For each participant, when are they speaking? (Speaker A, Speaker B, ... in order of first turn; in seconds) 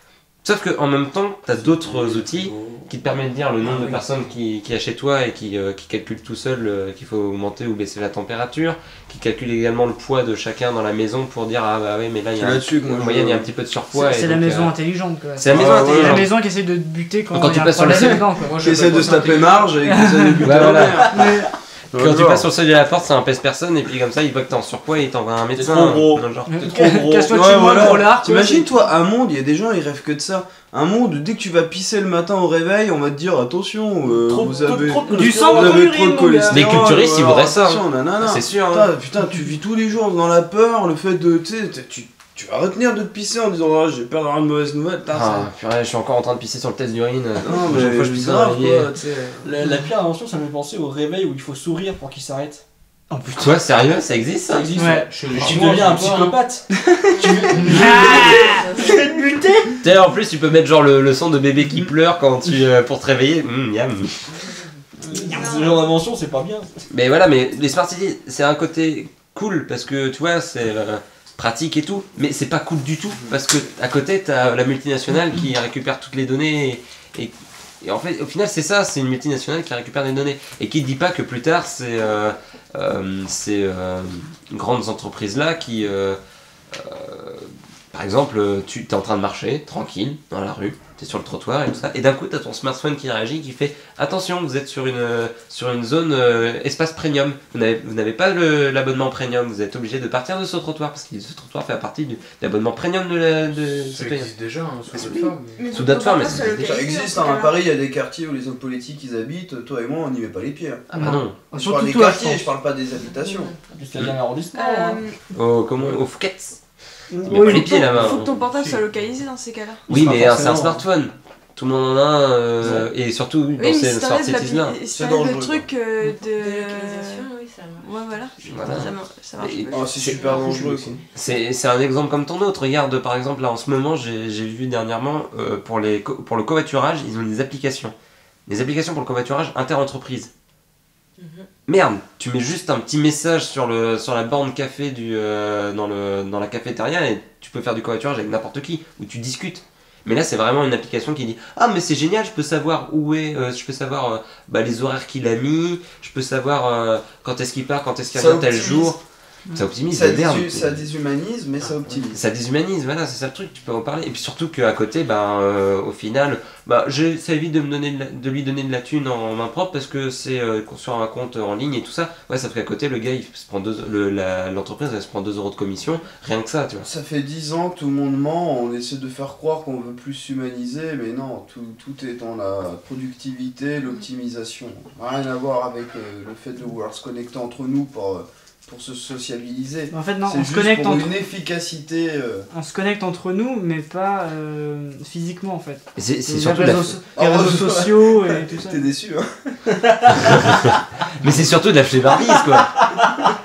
Speaker A: 0.4-14.8, 15.4-16.3, 17.3-18.3, 20.4-21.3, 21.9-26.5, 36.5-38.9, 45.1-48.9, 53.4-54.8, 59.8-64.3, 66.9-86.2, 86.7-104.3, 104.9-106.7, 110.9-111.4, 115.3-116.6, 117.2-118.5, 119.9-124.8, 128.4-130.6, 131.2-137.9, 138.5-140.3, 141.7-159.0, 159.5-160.8, 162.1-176.9, 196.0-197.0, 200.2-202.8
Speaker B: 1.6-2.9, 17.9-18.2, 25.5-27.9, 34.2-35.9, 49.4-52.6, 54.5-59.8, 65.1-66.9, 113.7-115.0, 117.1-118.0, 119.9-120.8, 122.6-122.9, 199.7-200.3, 202.8-203.1
Speaker C: 3.6-4.0, 18.4-19.7, 54.9-56.4, 103.8-105.6, 161.7-162.0
Speaker D: 12.4-13.5, 15.5-16.3, 18.6-22.5, 27.3-45.5, 47.4-49.5, 106.6-110.9, 111.5-113.5, 124.9-125.7, 129.7-131.0, 158.1-159.0, 159.9-162.2, 176.8-192.5, 197.2-199.6
Speaker E: 13.9-18.5, 19.9-21.5, 26.5-28.7, 35.1-36.9, 53.1-53.5, 54.8-55.1, 57.5-58.6, 110.9-112.5, 117.2-117.8, 189.9-191.2, 192.5-198.8
Speaker F: 65.3-66.0, 105.6-107.6, 114.5-115.2, 117.5-119.8, 123.5-127.3, 127.8-130.5
Speaker G: 112.9-113.6, 126.0-128.9, 130.1-130.6, 141.2-141.5